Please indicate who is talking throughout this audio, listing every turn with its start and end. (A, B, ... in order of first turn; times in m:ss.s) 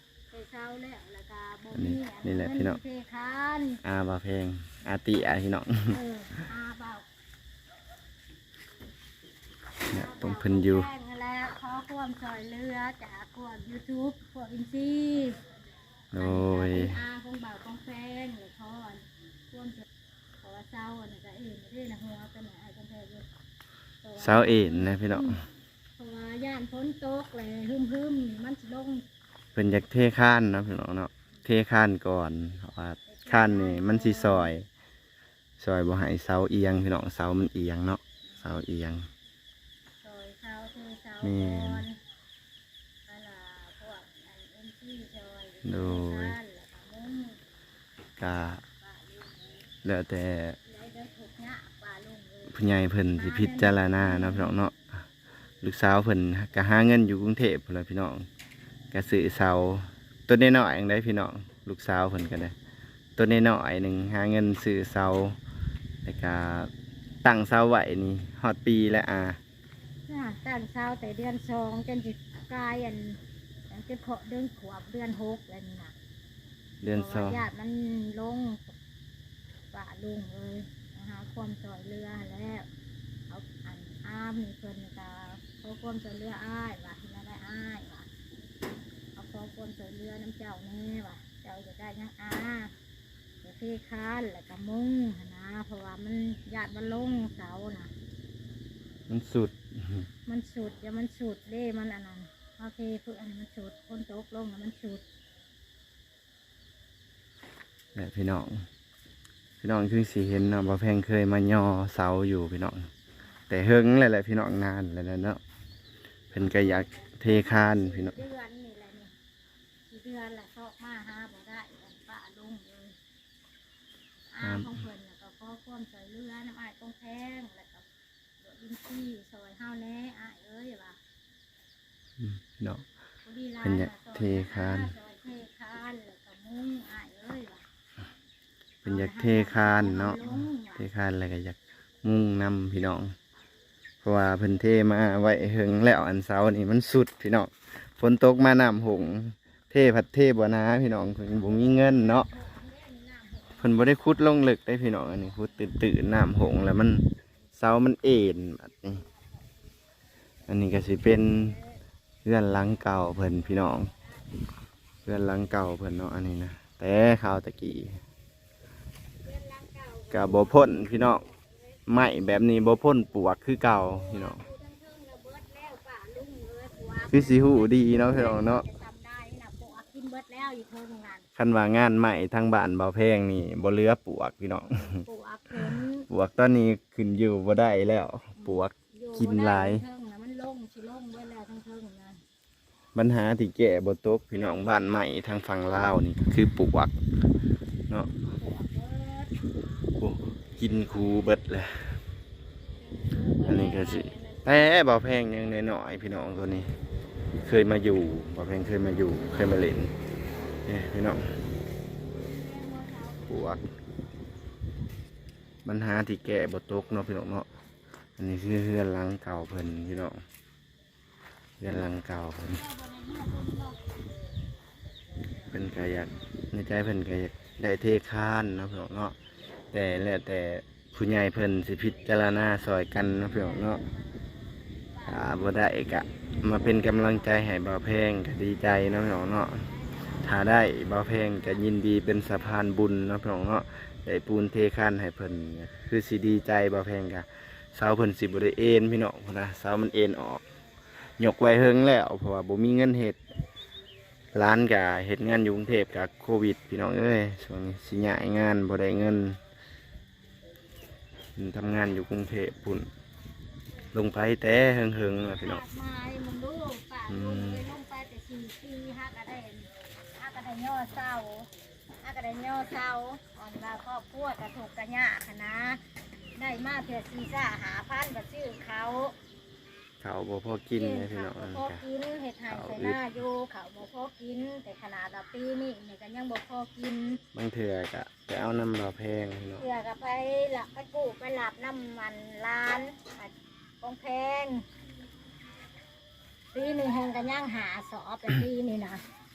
0:00.3-0:03.8 A
0:01.7-0:02.8 B
0:03.8-0:06.4 B
0:05.9-0:07.0 A
0:09.8-0:15.4 A
0:09.9-0:10.9 B
0:16.1-0:17.0 B
0:16.1-0:19.8 A
0:20.4-0:23.3 A
0:24.0-0:25.4 A
0:24.2-0:25.4 B
0:26.0-0:29.0 A
0:29.5-0:34.7 B
0:33.1-0:34.5 A
0:35.6-0:39.0 B
0:40.0-0:42.0 A
0:41.2-0:41.9 B
0:43.1-0:47.4 A
0:45.6-0:46.4 B
0:48.2-0:48.6 B
0:48.8-0:49.7 A
0:49.8-0:50.6 B
0:50.6-0:52.5 A
0:52.5-0:54.9 B
0:53.1-0:54.5 A
0:55.6-0:58.2 B
0:58.9-1:02.5 B
1:03.2-1:05.4 B
1:06.0-1:06.7 B
1:07.2-1:09.4 B
1:10.1-1:15.9 A
1:16.8-1:17.4 B
1:16.9-1:18.7 A
1:19.7-1:22.7 A
1:23.3-1:28.1 A
1:29.2-1:32.7 A
1:33.4-1:37.9 A
1:39.1-1:40.1 B
1:40.2-1:45.0 A
1:47.9-1:48.6 B
1:49.6-1:52.9 B
1:53.5-1:55.4 B
1:56.3-1:58.2 B
1:56.3-1:59.1 A
1:59.9-2:03.0 A
2:04.3-2:07.8 A
2:04.4-2:04.8 B
2:08.4-2:11.0 A
2:12.2-2:12.8 B
2:13.2-2:17.6 A
2:13.6-2:14.9 B
2:18.8-2:20.8 A
2:18.8-2:23.1 B
2:24.0-2:32.3 B
2:31.3-2:34.2 A
2:33.6-2:39.0 B
2:40.5-2:41.6 B
2:41.5-2:41.7 A
2:42.2-2:43.9 B
2:43.6-2:44.0 A
2:45.0-2:48.0 B
2:49.2-2:51.8 A
2:50.1-2:51.2 B
2:51.9-2:54.4 B
2:53.8-3:01.2 A
2:57.1-2:58.6 B
3:01.4-3:05.0 B
3:04.8-3:06.1 A
3:06.1-3:09.8 B
3:08.4-3:12.2 A
3:12.9-3:17.0 B
3:17.9-3:18.1 B
3:18.3-3:19.3 A
3:20.0-3:22.0 B
3:22.9-3:24.7 A
3:23.4-3:26.7 B
3:27.4-3:29.9 B
3:30.6-3:31.3 B
3:32.1-3:33.4 A
3:33.3-3:33.6 B
3:35.6-3:37.5 B
3:38.2-3:40.2 B
3:41.6-3:42.6 B
3:42.4-3:44.0 A
3:45.5-3:49.2 B
3:49.7-3:53.8 B
3:53.2-3:54.1 A
3:54.9-3:57.5 A
3:55.0-3:59.7 B
3:59.0-4:01.2 A
4:00.2-4:10.4 B
4:11.2-4:13.2 B
4:14.3-4:19.4 B
4:21.4-4:22.9 B
4:23.9-4:25.6 B
4:25.4-4:31.5 A
4:27.1-4:27.7 B
4:32.0-4:35.8 A
4:36.4-4:39.2 A
4:40.0-4:41.8 B
4:40.7-4:47.2 A
4:42.5-4:43.0 B
4:47.3-4:49.6 B
4:49.6-4:54.6 A
4:56.5-4:59.0 A